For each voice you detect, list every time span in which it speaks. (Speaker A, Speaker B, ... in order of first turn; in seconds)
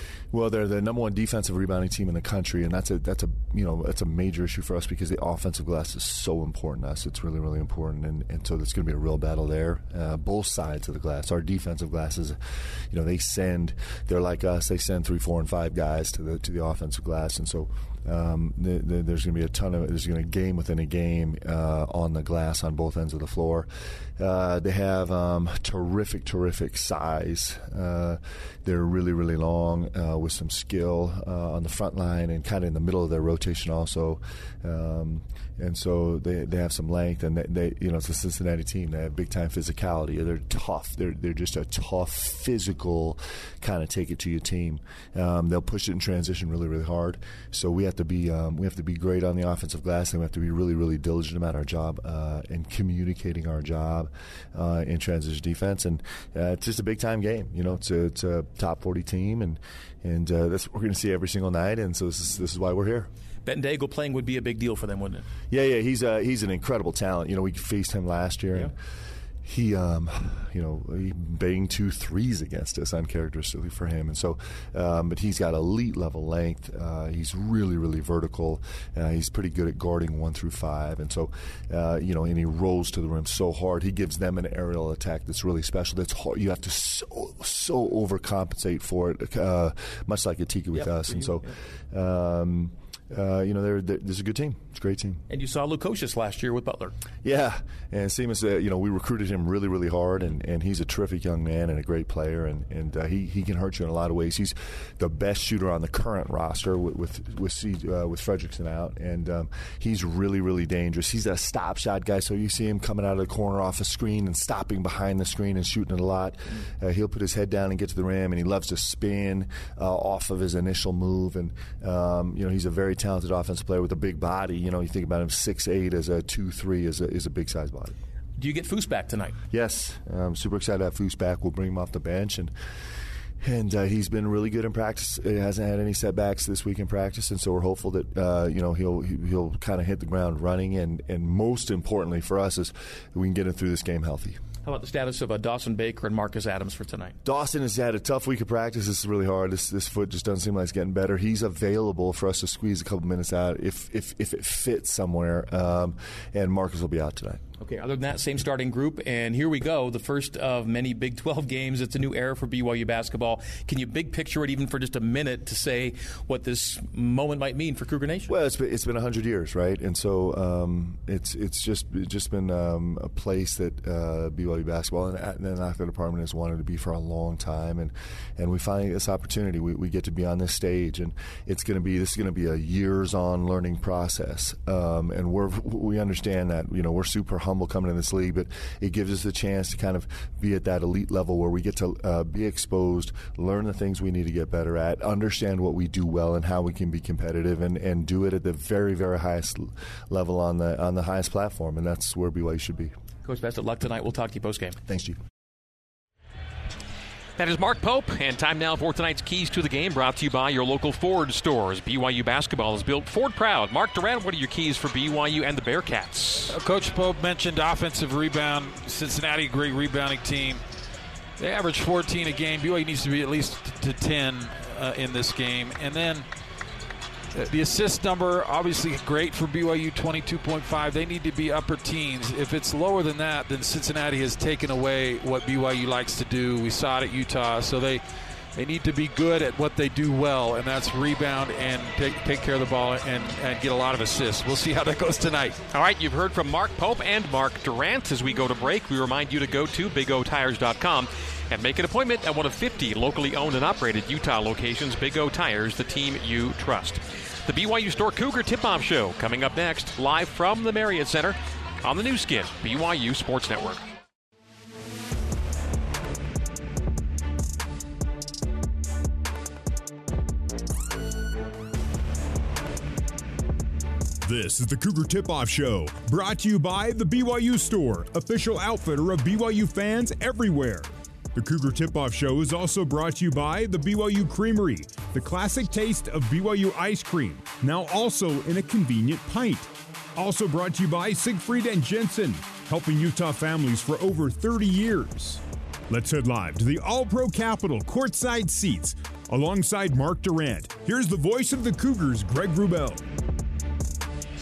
Speaker A: 0.3-63.1, 65.5-68.7, 69.4-95.2, 97.2-128.0, 129.5-132.5, 133.4-144.4, 147.2-157.4, 168.3-202.9, 204.9-205.2
Speaker B: 63.5-65.3, 90.8-91.5, 95.3-97.0, 128.4-129.4, 144.6-147.2, 157.6-168.3, 203.2-204.8
Speaker C: 207.4-216.5, 245.7-263.8
Speaker D: 216.5-220.6, 221.4-226.3, 227.3-238.0, 238.6-245.6
Speaker E: 274.2-303.0